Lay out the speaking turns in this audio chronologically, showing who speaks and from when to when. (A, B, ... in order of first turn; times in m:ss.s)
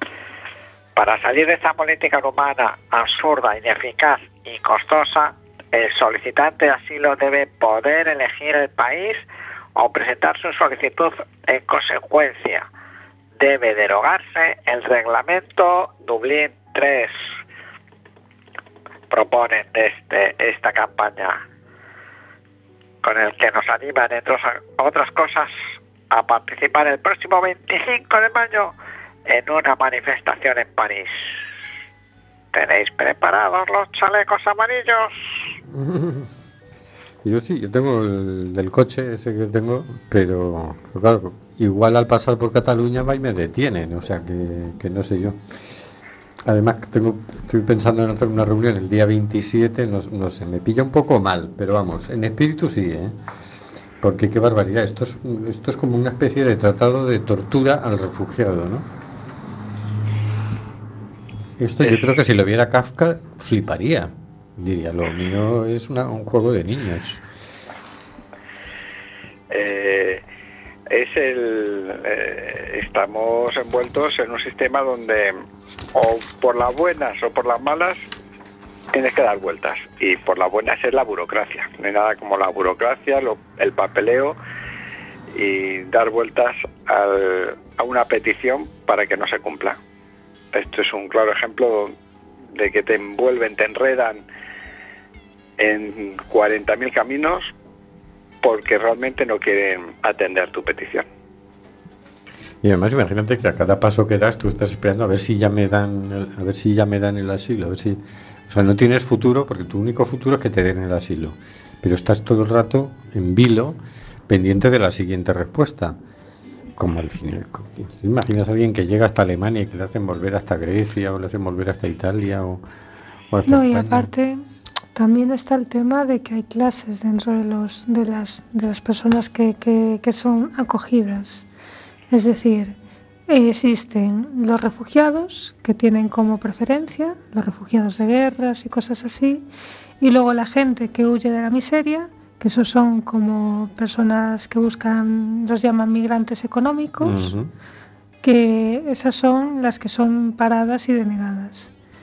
0:01.0-0:09.2 A
0:09.8-0:12.7 A
0:13.4-0:17.1 A
0:19.1-0:21.4 A
0:23.0-0:25.5 A
0:26.1-0:28.7 A
0:29.3-0:31.2 A
0:32.5-0:35.2 A
0:35.7-0:36.3 B
0:37.2-0:45.4 B
0:46.5-0:53.1 B
0:54.0-0:58.9 B
1:01.6-1:07.2 B
1:09.5-1:10.2 C
1:10.9-1:15.4 C
1:15.9-1:18.1 C
1:18.9-1:24.4 C
1:25.3-1:29.8 C
1:30.5-1:31.9 C
1:32.5-1:34.2 C
1:35.6-1:37.5 C
1:38.4-1:41.0 C
1:42.6-1:56.0 B
1:56.8-2:02.6 B
2:03.3-2:04.1 B
2:03.5-2:04.4 D
2:05.0-2:11.5 D
2:12.1-2:12.8 D
2:13.3-2:19.5 D
2:20.0-2:27.3 D
2:27.0-2:27.5 B
2:28.2-2:31.7 D